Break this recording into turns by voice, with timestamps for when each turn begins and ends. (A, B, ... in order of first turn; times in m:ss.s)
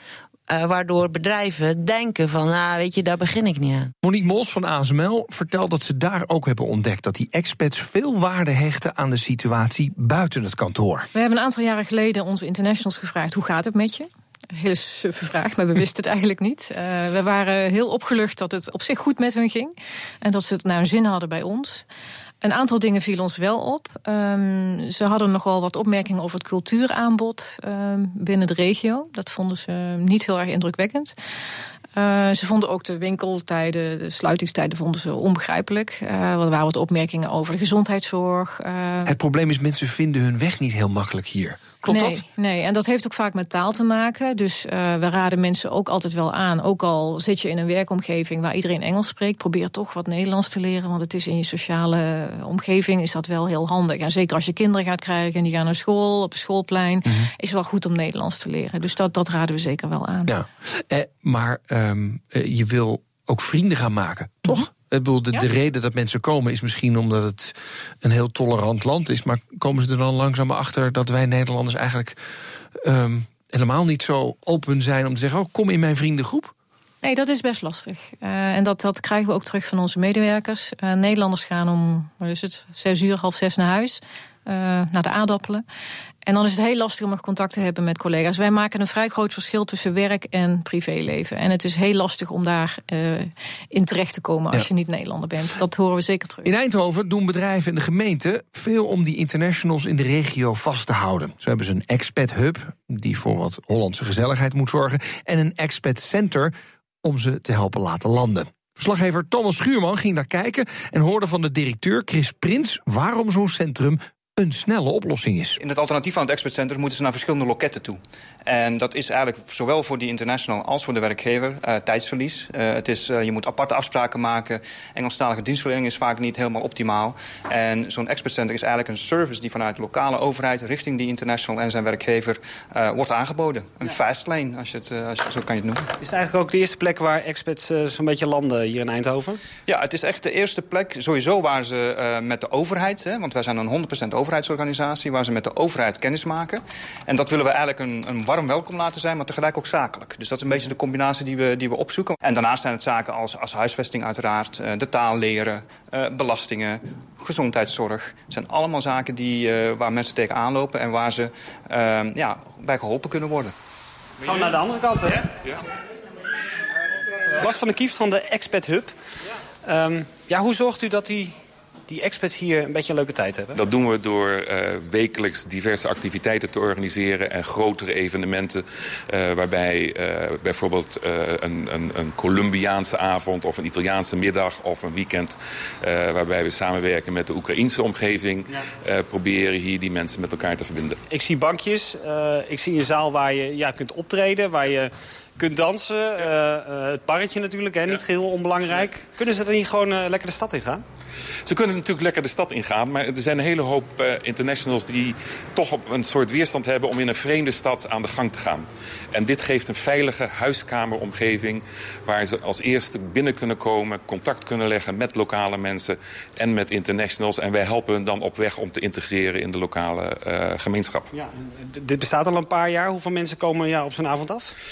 0:00.5-0:03.9 A
0:04.0-0:11.1 B
0:11.1-0:21.8 C
0:22.4-0:31.2 C
0:32.0-0:39.1 C
0:39.1-0:42.2 B
0:41.9-1:00.3 C
1:00.3-1:12.2 B
1:12.8-1:16.5 B
1:17.0-1:25.6 C
1:26.2-1:36.5 C
1:36.4-1:46.5 B
1:47.0-1:55.6 B
1:55.6-2:15.9 D
2:16.0-2:19.4 E
2:19.7-2:43.5 D
2:44.2-2:45.4 E
2:47.4-2:48.9 E
2:49.6-2:51.4 E
2:51.9-2:53.6 E
2:53.6-3:11.0 F
3:11.1-3:20.8 E
3:21.4-3:41.1 F
3:41.1-3:44.5 E